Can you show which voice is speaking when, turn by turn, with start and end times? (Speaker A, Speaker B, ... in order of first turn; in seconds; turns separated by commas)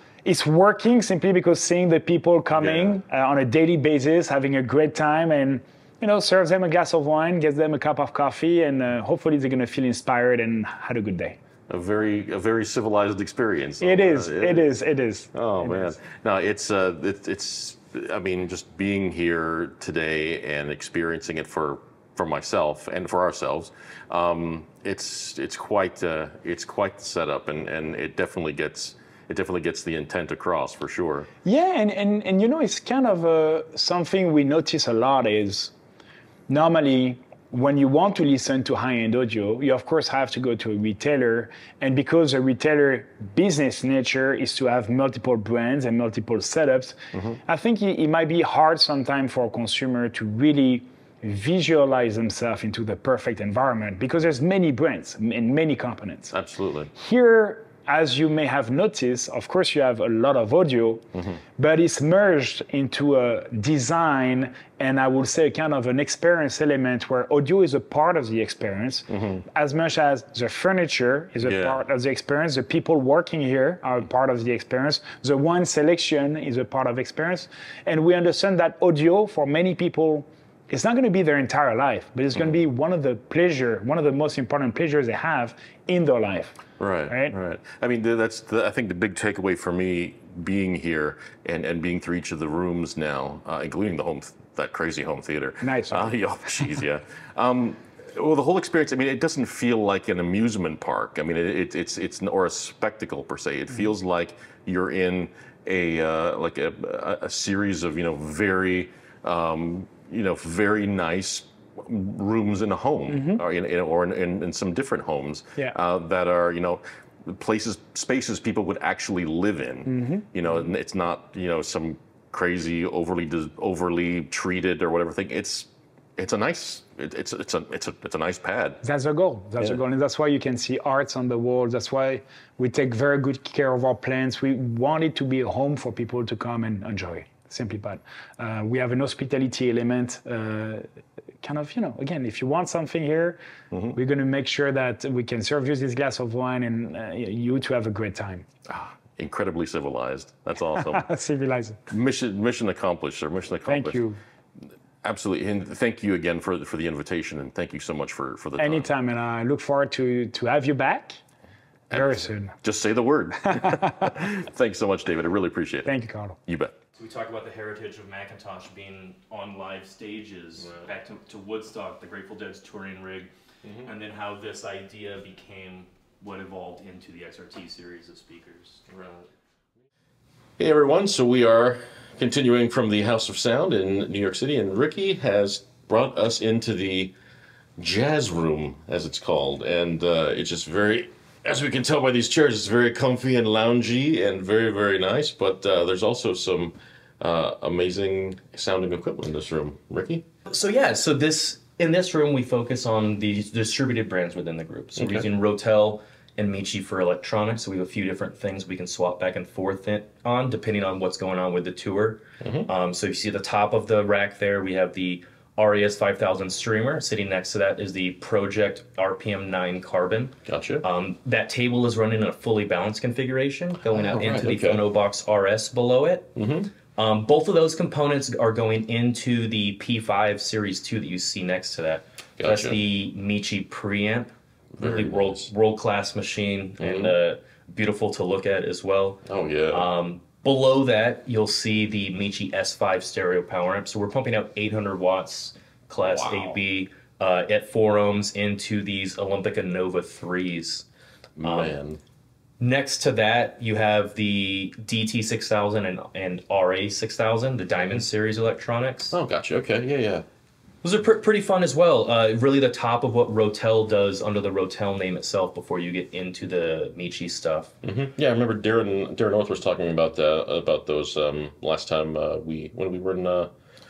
Speaker A: 0.2-11.4, Speaker B: 2.6-3.0, Speaker B: 11.7-14.7, Speaker A: 13.8-16.0, Speaker B: 15.3-31.3, Speaker A: 31.4-35.7, Speaker A: 36.5-56.3, Speaker B: 47.1-47.4, Speaker B: 56.3-56.9, Speaker A: 56.9-61.0, Speaker B: 61.1-61.4, Speaker A: 61.6-86.6, Speaker B: 69.1-69.4, Speaker B: 71.4-71.8, Speaker B: 86.8-128.8, Speaker A: 87.1-87.3, Speaker A: 95.6-96.2, Speaker A: 113.1-113.4, Speaker A: 119.9-120.3, Speaker A: 128.8-143.4, Speaker B: 143.7-144.0, Speaker A: 143.9-148.5, Speaker B: 148.7-151.1, Speaker A: 150.7-151.8, Speaker B: 151.9-154.0, Speaker A: 153.7-154.2, Speaker B: 155.0-158.9, Speaker A: 158.6-161.2, Speaker B: 161.9-165.9, Speaker A: 161.9-162.5, Speaker A: 163.4-164.1, Speaker A: 165.8-166.4, Speaker B: 166.5-166.8, Speaker C: 167.0-173.3, Speaker B: 170.6-170.9, Speaker B: 173.6-173.9, Speaker C: 173.8-178.8, Speaker B: 178.9-179.3, Speaker B: 180.6-187.1, Speaker B: 187.8-200.2, Speaker C: 200.5-226.4, Speaker B: 205.0-205.3, Speaker B: 212.4-212.7, Speaker B: 220.5-220.8, Speaker B: 223.8-224.8, Speaker B: 226.4-226.7, Speaker C: 226.9-250.9, Speaker B: 232.4-232.8, Speaker B: 234.7-235.5, Speaker B: 236.8-237.2, Speaker B: 239.3-239.9, Speaker B: 246.0-246.6, Speaker B: 251.4-252.0, Speaker C: 251.4-251.7, Speaker C: 252.6-259.2, Speaker B: 259.1-260.3, Speaker C: 260.8-267.8, Speaker B: 267.8-273.5